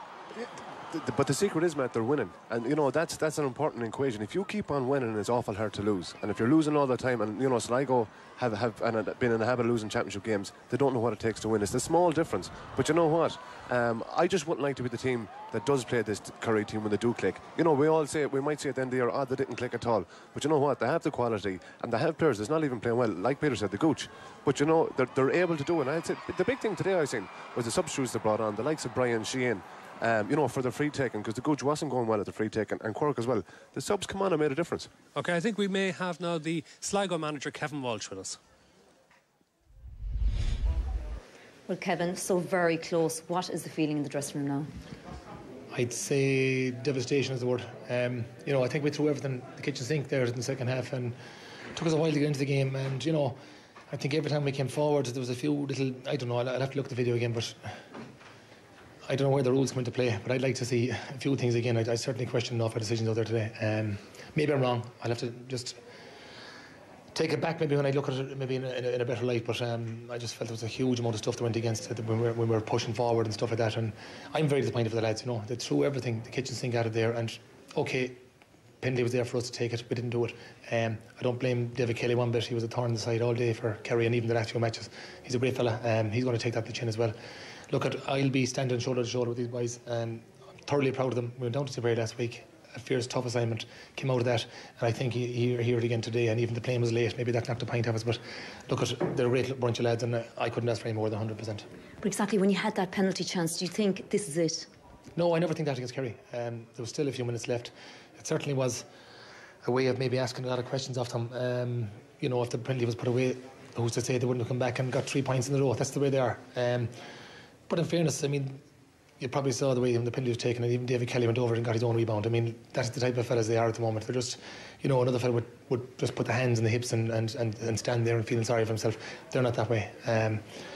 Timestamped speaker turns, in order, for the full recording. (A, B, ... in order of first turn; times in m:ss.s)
0:00.3-0:34.9 A
0:35.1-0:38.4 B
0:41.7-0:44.7 C
0:45.7-0:51.2 D
0:51.7-0:53.4 D
0:53.9-0:57.8 D
0:59.1-1:05.8 D
1:07.1-1:18.2 D
1:18.8-1:27.2 D
1:27.7-1:41.7 D
1:42.0-1:44.7 C
1:45.2-1:48.9 D
1:49.6-1:57.0 D
1:57.7-1:58.6 D
1:59.2-2:10.5 D